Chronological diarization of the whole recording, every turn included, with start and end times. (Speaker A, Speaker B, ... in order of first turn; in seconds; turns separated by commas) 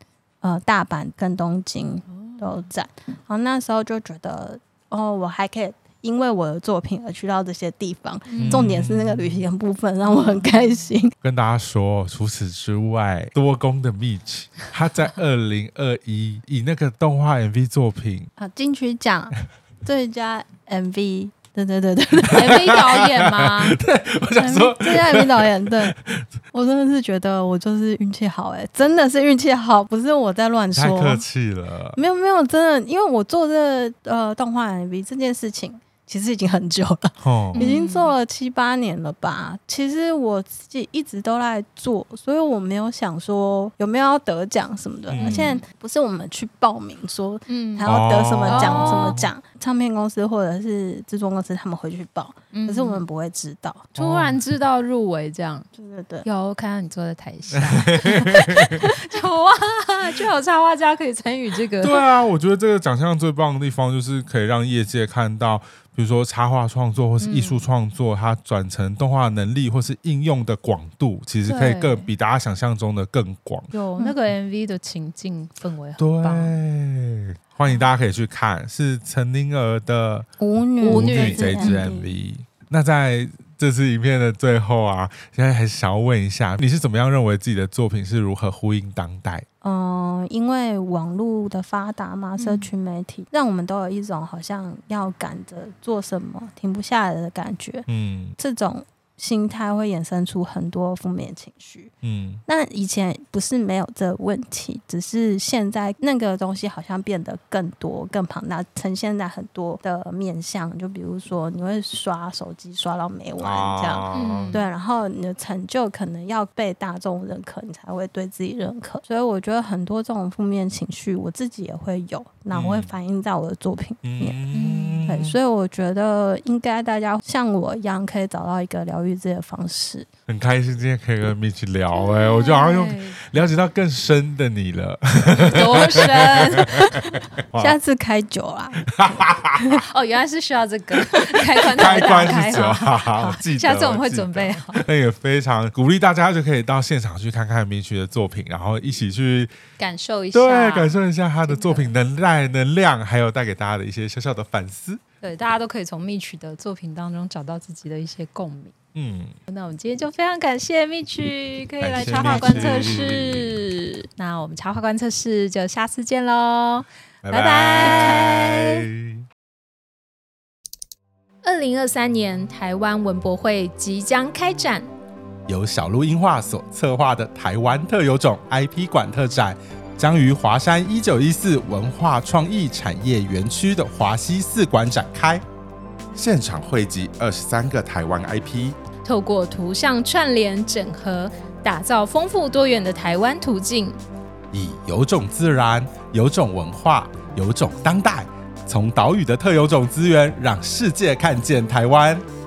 Speaker A: 0.4-11.1, Speaker B: 2.1-2.6, Speaker B: 8.3-8.7, Speaker C: 8.4-9.4, Speaker B: 10.1-10.5, Speaker C: 11.2-18.3, Speaker A: 18.4-22.6, Speaker B: 22.3-23.8, Speaker C: 22.4-26.2, Speaker A: 24.4-25.9, Speaker A: 26.5-31.2, Speaker C: 30.7-32.0, Speaker A: 31.9-53.9, Speaker C: 37.2-37.7, Speaker B: 37.5-38.1, Speaker C: 45.1-45.6, Speaker B: 45.1-45.6, Speaker B: 47.5-47.9, Speaker C: 47.8-49.3, Speaker B: 48.5-49.2, Speaker B: 52.5-53.0, Speaker B: 53.9-55.6, Speaker C: 54.0-54.4, Speaker A: 55.8-56.2, Speaker B: 56.2-62.0, Speaker C: 57.5-58.8, Speaker C: 61.8-73.7, Speaker B: 67.2-67.6, Speaker B: 71.4-72.1, Speaker B: 73.7-76.6, Speaker C: 76.0-80.2, Speaker A: 80.4-82.0, Speaker B: 80.8-82.0, Speaker C: 80.8-89.4, Speaker A: 89.6-97.8, Speaker B: 92.4-92.7, Speaker C: 97.9-98.3, Speaker A: 98.4-101.9, Speaker C: 102.0-102.4, Speaker A: 102.5-124.4, Speaker C: 113.4-114.6, Speaker B: 114.1-114.7, Speaker C: 122.5-122.9, Speaker C: 124.0-125.4, Speaker B: 124.5-125.1, Speaker A: 125.0-130.1, Speaker C: 130.3-136.9, Speaker B: 131.9-133.2, Speaker B: 135.4-137.1, Speaker C: 137.5-137.7, Speaker A: 137.6-139.8, Speaker C: 139.0-139.6, Speaker B: 139.8-144.8, Speaker C: 141.2-149.5, Speaker B: 149.8-151.9, Speaker C: 150.3-155.0, Speaker B: 155.2-158.7, Speaker C: 158.9-159.3, Speaker B: 159.5-168.8, Speaker C: 161.8-163.6, Speaker C: 167.2-169.2, Speaker B: 171.4-174.9, Speaker C: 175.5-185.4, Speaker C: 186.1-188.8, Speaker B: 189.0-194.0, Speaker C: 194.5-202.2